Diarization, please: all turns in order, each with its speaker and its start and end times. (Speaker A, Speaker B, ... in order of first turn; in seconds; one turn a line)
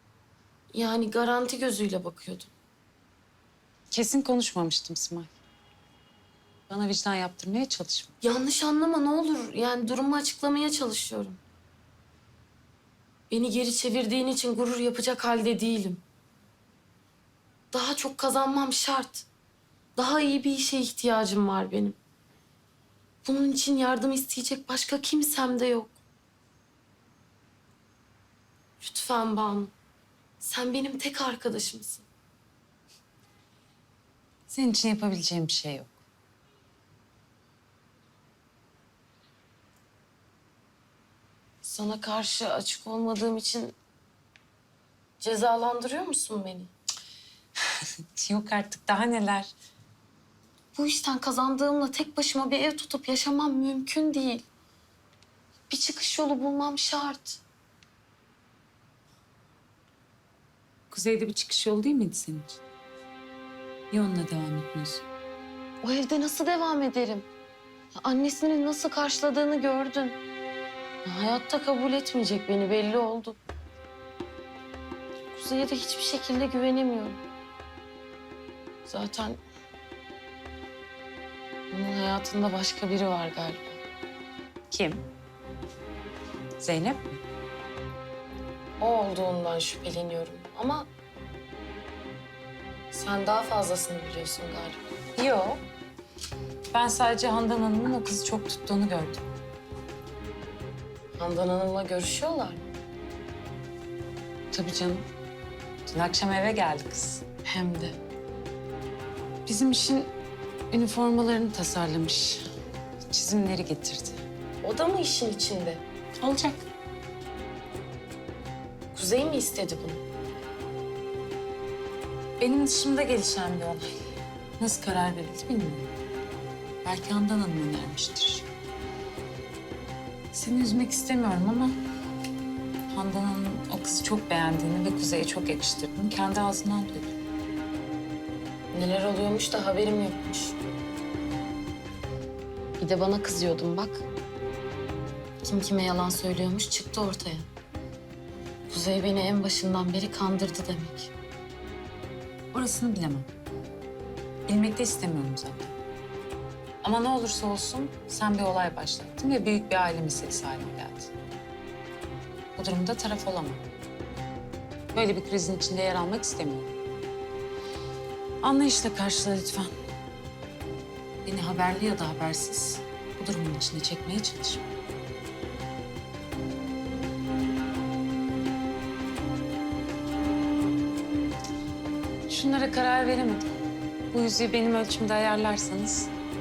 Speaker A: 0.7-2.5
Speaker B: 3.9-5.3
Speaker B: 6.7-8.1
Speaker A: 8.2-11.4
Speaker A: 13.3-16.0
Speaker A: 17.7-19.3
Speaker A: 20.0-22.0
Speaker A: 23.2-26.0
Speaker A: 28.8-29.7
Speaker A: 30.4-32.1
Speaker B: 34.5-36.0
Speaker A: 41.6-43.8
Speaker A: 45.2-46.7
Speaker B: 48.1-49.5
Speaker A: 50.8-54.5
Speaker A: 55.7-57.4
Speaker B: 60.9-62.6
Speaker B: 63.9-65.0
Speaker A: 65.8-67.3
Speaker A: 68.0-70.2
Speaker A: 71.0-73.4
Speaker A: 75.3-77.2
Speaker A: 78.9-79.4
Speaker A: 81.7-83.8
Speaker B: 84.7-85.0
Speaker B: 86.6-87.2
Speaker A: 88.8-90.9
Speaker A: 92.9-94.8
Speaker B: 95.2-95.6
Speaker B: 96.7-99.2
Speaker A: 101.2-102.6
Speaker B: 104.5-105.1
Speaker B: 105.9-108.0
Speaker B: 109.5-110.1
Speaker B: 110.7-112.5
Speaker B: 113.1-114.2
Speaker A: 114.6-115.8
Speaker B: 116.2-116.7
Speaker A: 118.9-120.0
Speaker B: 122.4-124.0
Speaker B: 124.6-125.9
Speaker B: 126.8-128.5
Speaker B: 130.3-131.8
Speaker B: 132.9-137.2
Speaker A: 138.7-140.6
Speaker A: 142.8-144.1
Speaker A: 145.4-147.5
Speaker A: 148.7-151.1
Speaker B: 152.5-153.3
Speaker B: 154.5-155.7
Speaker B: 156.8-161.1
Speaker B: 162.6-163.6
Speaker B: 164.9-166.8
Speaker B: 168.4-169.7
Speaker B: 171.2-174.7
Speaker B: 182.3-183.5
Speaker B: 184.1-186.1